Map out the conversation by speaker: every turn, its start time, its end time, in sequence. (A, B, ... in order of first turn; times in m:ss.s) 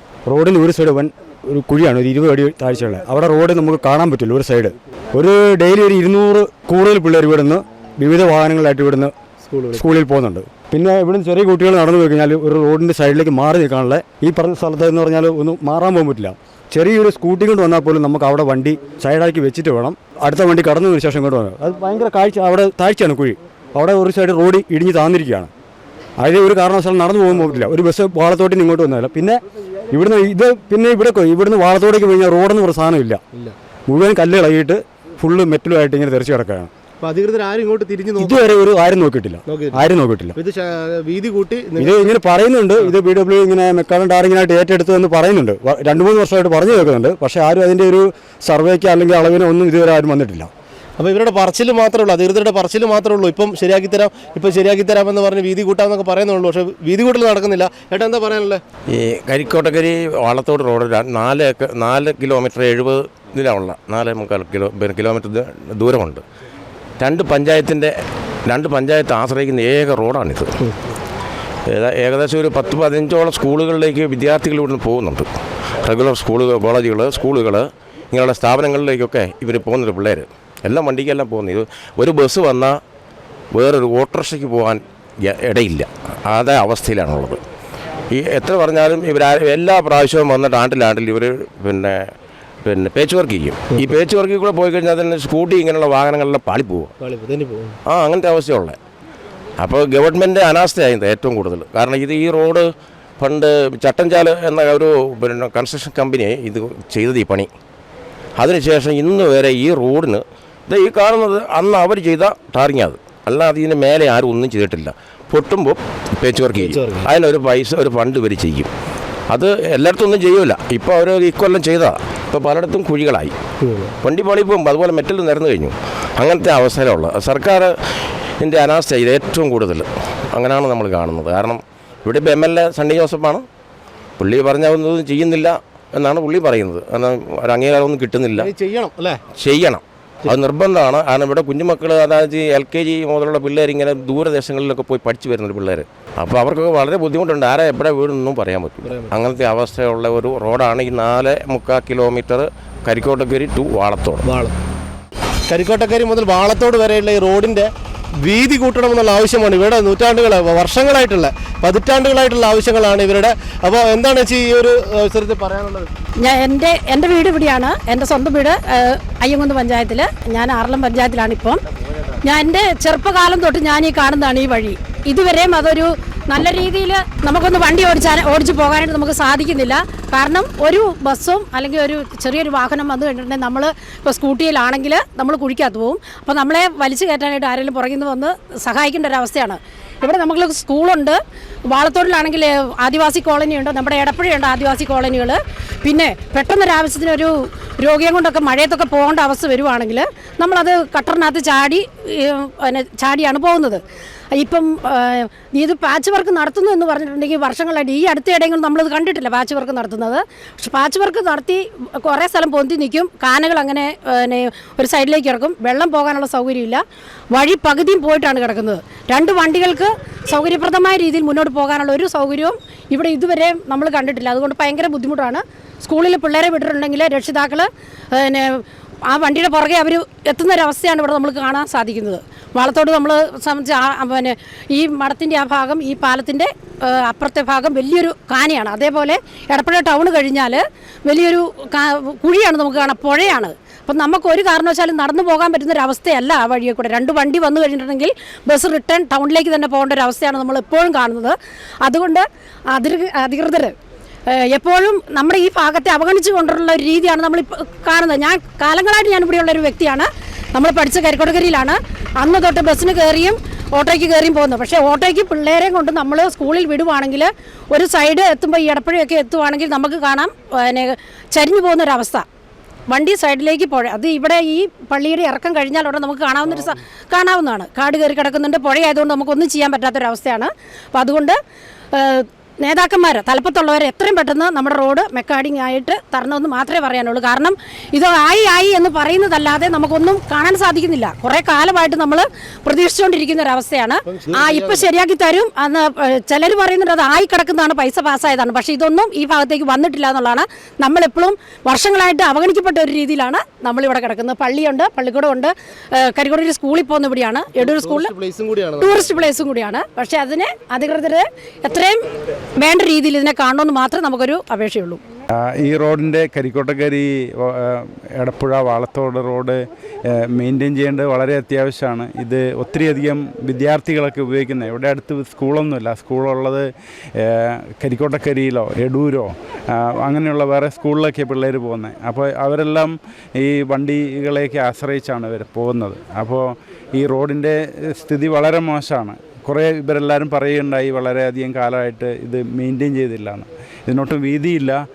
0:00.3-0:09.1 A
0:09.4-0:09.8 B
0:09.7-0:25.5 A
0:26.2-0:33.2 A
0:33.9-0:36.7 A
0:37.0-0:38.6 B
0:38.2-0:40.4 A
0:39.5-0:42.1 B
0:41.8-0:50.5 A
0:51.0-0:58.6 B
0:58.9-1:06.2 C
1:07.0-1:07.9 C
1:08.5-1:10.5 C
1:11.7-1:15.3 C
1:15.8-1:22.8 C
1:23.6-1:27.4 C
1:28.1-1:32.0 C
1:32.6-1:36.9 C
1:33.7-1:34.0 B
1:37.0-1:37.8 B
1:37.9-1:38.8 C
1:39.6-1:42.7 C
1:43.2-1:47.5 C
1:48.4-1:58.7 C
1:56.6-1:57.1 B
1:59.3-2:03.4 C
2:03.6-2:03.9 B
2:04.0-2:07.7 C
2:08.4-2:13.4 C
2:14.2-2:18.5 C
2:18.3-2:19.2 B
2:19.4-2:34.2 C
2:28.8-2:29.2 B
2:34.2-2:34.6 B
2:35.5-2:37.7 B
2:38.2-2:45.9 B
2:46.2-2:51.6 D
2:52.2-3:11.2 D
3:11.7-3:23.8 D
3:24.3-3:36.8 D
3:37.3-4:13.7 D
4:14.3-4:32.3 D
4:32.9-4:41.4 D
4:41.9-5:08.2 D
4:54.1-4:54.9 B
5:07.6-5:09.5 B
5:08.8-5:12.0 D
5:12.6-5:15.0 D
5:15.6-5:17.6 E
5:18.2-5:19.6 E
5:20.4-5:26.7 E
5:27.2-5:29.3 E
5:30.0-5:44.8 E